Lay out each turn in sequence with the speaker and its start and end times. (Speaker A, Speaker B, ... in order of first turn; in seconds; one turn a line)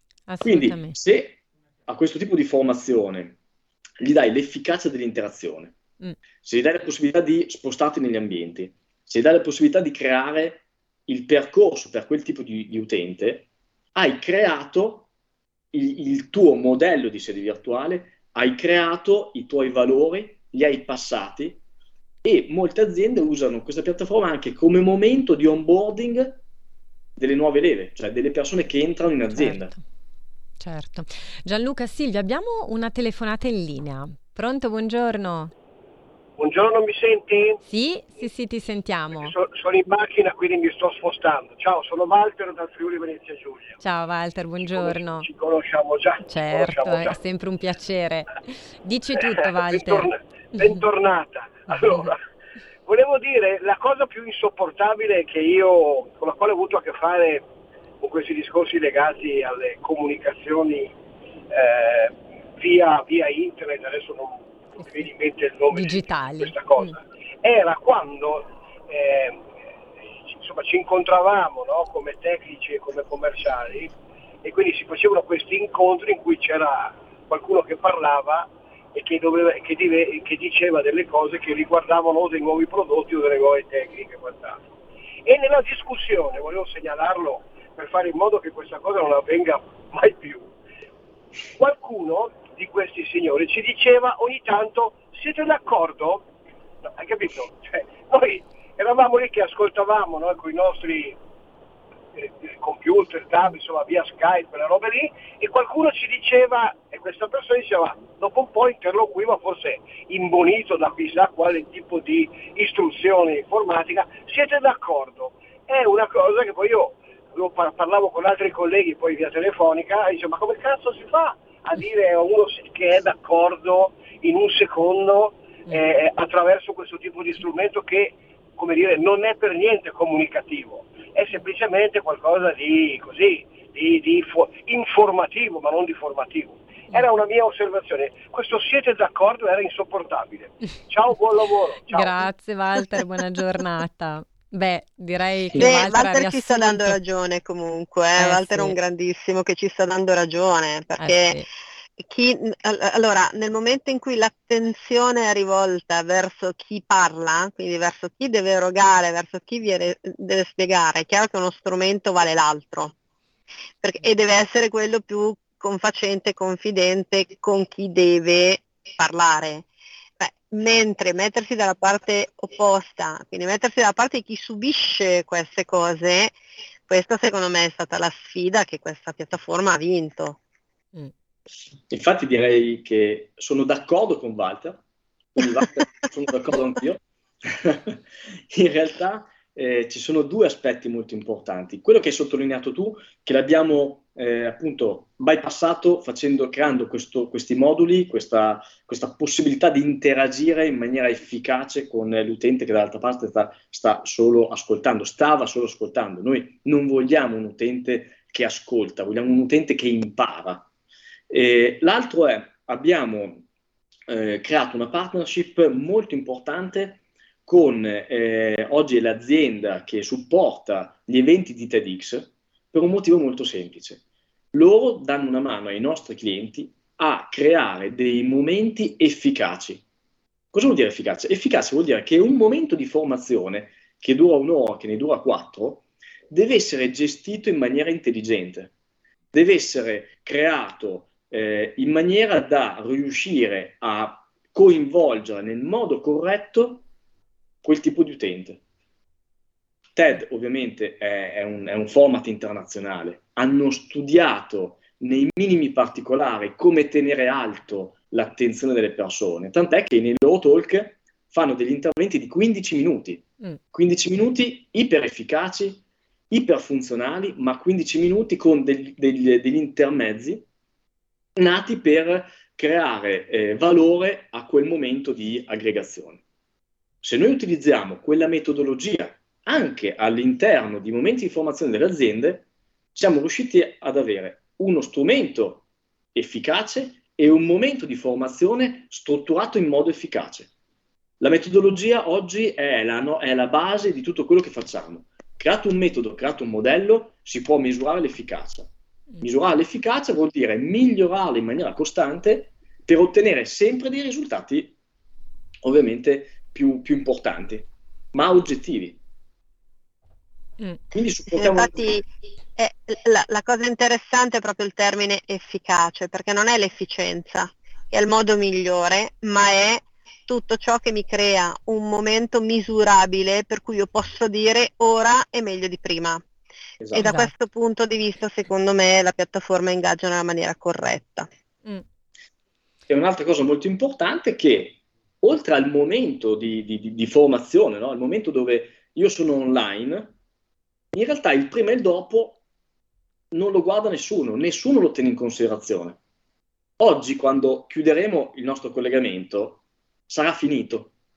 Speaker A: 0.3-1.0
Speaker B: 0.4-3.4
Speaker B: 4.0-5.7
Speaker B: 6.4-15.1
Speaker B: 15.7-21.6
Speaker B: 22.2-26.4
Speaker B: 27.2-29.7
Speaker A: 29.4-29.8
Speaker A: 30.6-35.5
Speaker C: 36.4-37.6
Speaker A: 37.6-39.3
Speaker C: 39.2-43.8
Speaker A: 43.8-45.3
Speaker C: 44.7-47.2
Speaker A: 46.2-50.8
Speaker C: 49.2-52.2
Speaker A: 51.7-52.1
Speaker C: 52.9-57.5
Speaker C: 58.0-60.9
Speaker C: 61.5-69.4
Speaker A: 65.7-66.9
Speaker C: 70.3-73.9
Speaker C: 74.4-84.6
Speaker C: 85.2-90.5
Speaker C: 91.6-96.3
Speaker C: 96.8-101.2
Speaker C: 102.1-142.3
Speaker A: 141.9-147.0
Speaker D: 145.6-151.4
Speaker A: 148.2-148.8
Speaker A: 151.0-151.4
Speaker D: 152.0-162.9
Speaker D: 163.8-169.7
Speaker D: 170.2-176.3
Speaker D: 176.9-180.4
Speaker B: 181.9-184.8
Speaker B: 185.3-188.0
Speaker B: 188.5-210.7
Speaker B: 211.3-213.4
Speaker B: 214.1-224.0
Speaker B: 224.5-229.8
Speaker B: 230.5-238.7
Speaker B: 239.3-246.8
Speaker B: 247.6-248.6
Speaker B: 249.9-270.4
Speaker B: 271.4-276.2
Speaker B: 277.0-290.5
Speaker B: 291.2-298.7
Speaker B: 299.2-304.7
Speaker B: 305.6-309.0
Speaker B: 310.9-312.0
Speaker D: 311.3-326.2
Speaker B: 326.8-327.1
Speaker D: 326.9-331.3
Speaker A: 327.0-327.3
Speaker B: 332.9-340.1
Speaker B: 340.9-342.4
Speaker B: 343.3-346.0
Speaker B: 346.8-350.9